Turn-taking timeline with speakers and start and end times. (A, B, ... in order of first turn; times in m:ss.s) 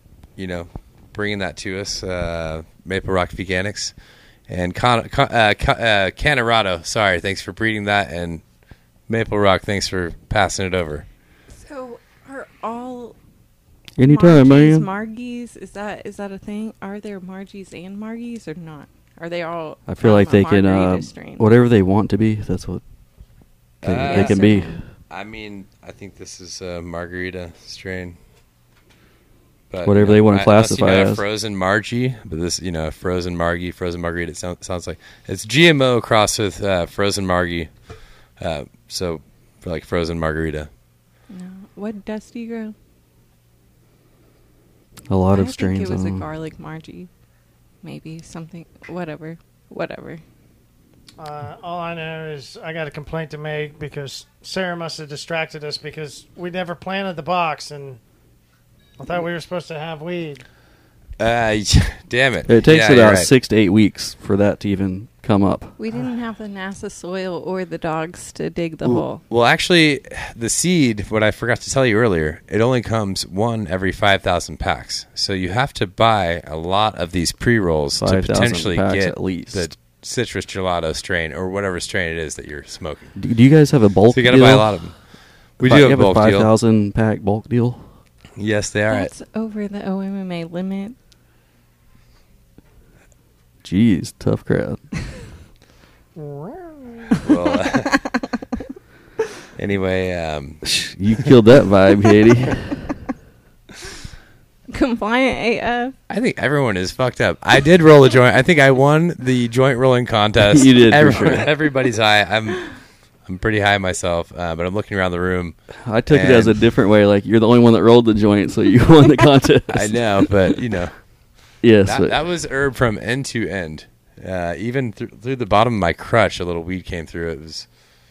0:00.4-0:03.9 A
0:04.5-0:08.4 A
0:09.1-0:11.0 A
0:11.5-0:13.2 B
0:14.0-0:14.9 C
0:14.0-0:21.4 B
0:19.9-0:22.8 C
0:23.8-0:24.4 A
0:23.8-0:24.8 C
0:24.0-0:24.8 B
0:25.1-0:28.2 A
0:29.7-0:37.7 A
0:29.8-0:31.2 C
0:38.4-0:40.7 A
0:41.3-0:42.7 B
0:45.1-0:46.3 C
0:45.3-0:47.1 B
0:47.8-0:50.2 B
0:51.2-0:58.0 D
0:59.0-1:00.4 D
1:01.2-1:03.3 A
1:02.5-1:05.8 C
1:05.8-1:09.2 B
1:08.8-1:23.1 A
1:18.0-1:19.7 C
1:23.2-1:24.8 C
1:24.1-1:25.0 A
1:25.6-1:26.5 A
1:25.6-1:27.9 C
1:28.4-1:29.1 A
1:28.9-1:31.0 B
1:33.6-1:34.9 C
1:36.1-1:37.2 D
1:37.2-1:38.0 A
1:39.6-1:40.6 A
1:40.6-1:43.0 C
1:44.7-1:45.9 B
1:46.1-1:55.6 A
1:50.5-1:51.5 C
1:55.8-2:00.6 C
1:56.1-1:56.5 A
1:59.7-2:01.0 A
2:01.6-2:02.2 C
2:01.8-2:07.7 A